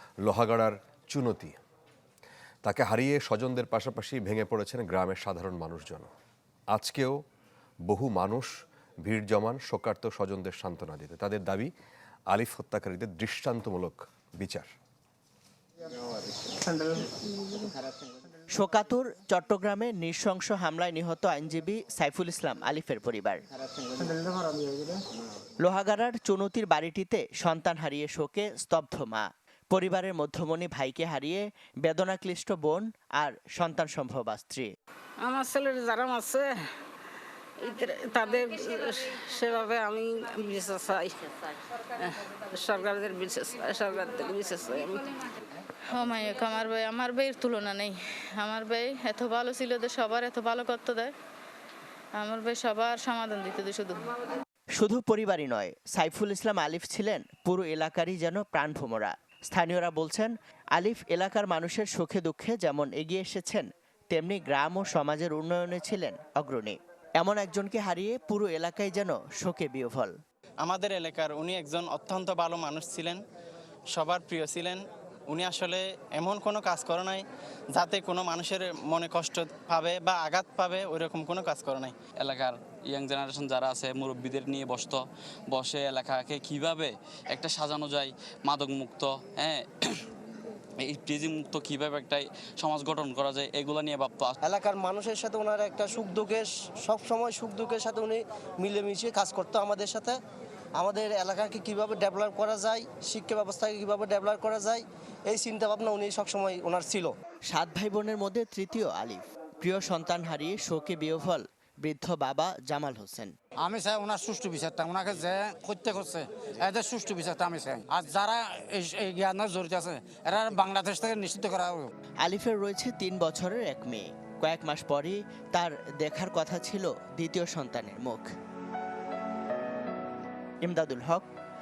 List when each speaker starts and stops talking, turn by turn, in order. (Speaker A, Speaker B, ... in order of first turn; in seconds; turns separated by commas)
Speaker A: 0.2-1.6, Speaker A: 2.6-6.1, Speaker A: 6.7-7.2, Speaker A: 7.9-8.5, Speaker A: 9.1-11.7, Speaker A: 12.3-14.7, Speaker B: 18.5-23.4, Speaker B: 25.6-34.7, Speaker C: 35.2-36.6, Speaker C: 37.6-45.3, Speaker D: 45.9-51.1, Speaker D: 52.2-54.0, Speaker B: 54.8-70.2, Speaker E: 70.6-73.2, Speaker E: 73.9-82.0, Speaker F: 82.2-90.1, Speaker F: 90.8-94.4, Speaker G: 94.4-100.2, Speaker G: 100.8-107.1, Speaker B: 107.5-113.3, Speaker H: 113.6-121.9, Speaker B: 122.2-128.3, Speaker B: 130.6-131.3